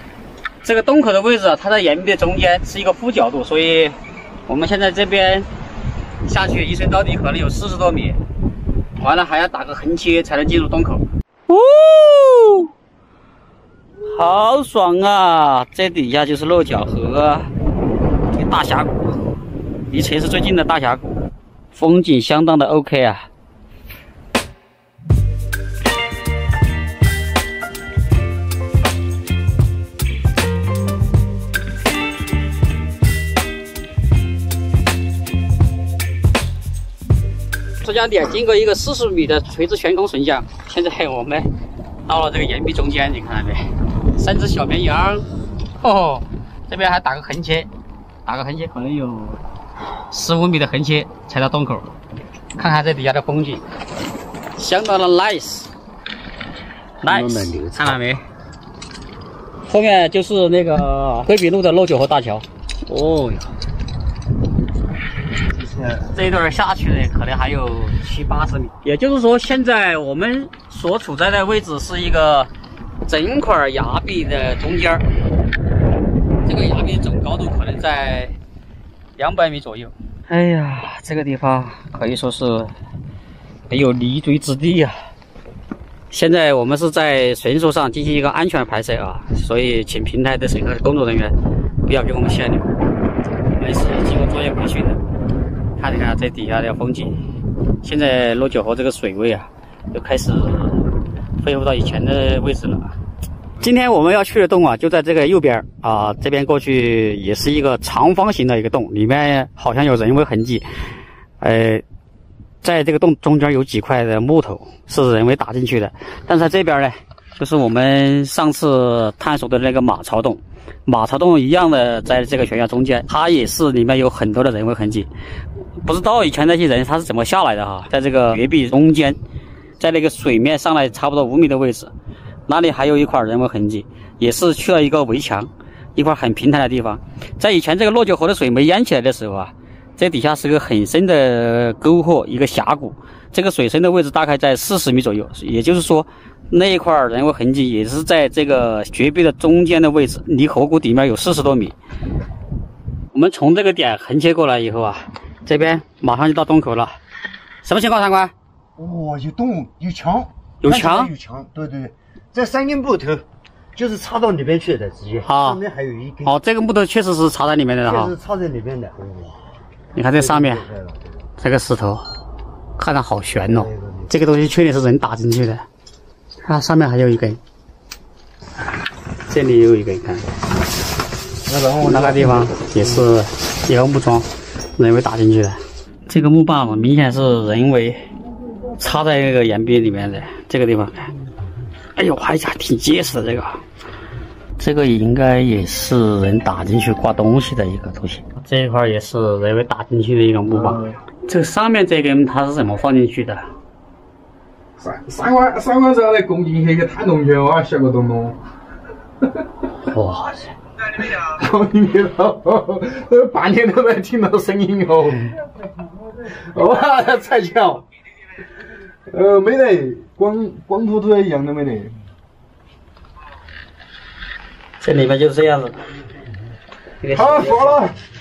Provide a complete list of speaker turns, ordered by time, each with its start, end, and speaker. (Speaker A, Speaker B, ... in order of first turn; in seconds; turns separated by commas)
Speaker A: 0.6-5.5, Speaker A: 6.2-8.2, Speaker A: 9.0-12.7, Speaker A: 14.1-17.5, Speaker A: 18.3-19.2, Speaker A: 19.9-21.1, Speaker A: 21.7-23.3, Speaker A: 37.8-41.5, Speaker A: 42.1-43.6, Speaker A: 44.2-45.3, Speaker A: 45.8-47.7, Speaker A: 48.3-49.4, Speaker A: 50.1-51.9, Speaker A: 52.6-53.6, Speaker A: 54.6-55.7, Speaker A: 57.0-58.2, Speaker B: 57.0-58.0, Speaker A: 59.7-63.5, Speaker B: 65.4-66.1, Speaker A: 66.1-72.5, Speaker A: 73.1-75.0, Speaker A: 76.5-78.4, Speaker A: 79.2-82.7, Speaker A: 83.7-85.0, Speaker A: 86.1-92.8, Speaker A: 93.5-95.0, Speaker A: 95.8-97.2, Speaker A: 97.8-100.8, Speaker A: 101.4-102.9, Speaker A: 103.6-110.7, Speaker A: 111.4-111.8, Speaker A: 112.6-125.1, Speaker A: 125.8-129.2, Speaker A: 129.8-131.9, Speaker A: 132.5-151.7, Speaker A: 153.1-157.0, Speaker A: 157.6-158.3, Speaker B: 158.8-166.4, Speaker A: 160.6-161.1, Speaker A: 165.2-165.6, Speaker A: 166.2-168.1, Speaker B: 167.8-169.4, Speaker A: 169.9-170.6, Speaker B: 170.2-171.1, Speaker A: 171.4-172.0, Speaker A: 172.8-175.7, Speaker B: 173.5-174.1, Speaker A: 176.4-177.4, Speaker A: 179.3-180.3, Speaker C: 181.5-182.4, Speaker A: 181.8-188.0, Speaker A: 188.8-191.1, Speaker A: 192.0-193.6, Speaker A: 194.6-203.5, Speaker C: 204.8-208.4, Speaker A: 209.8-210.5, Speaker C: 211.0-215.3, Speaker C: 216.2-217.8, Speaker C: 219.1-221.9, Speaker A: 224.8-225.8, Speaker A: 227.0-227.8, Speaker C: 227.1-227.9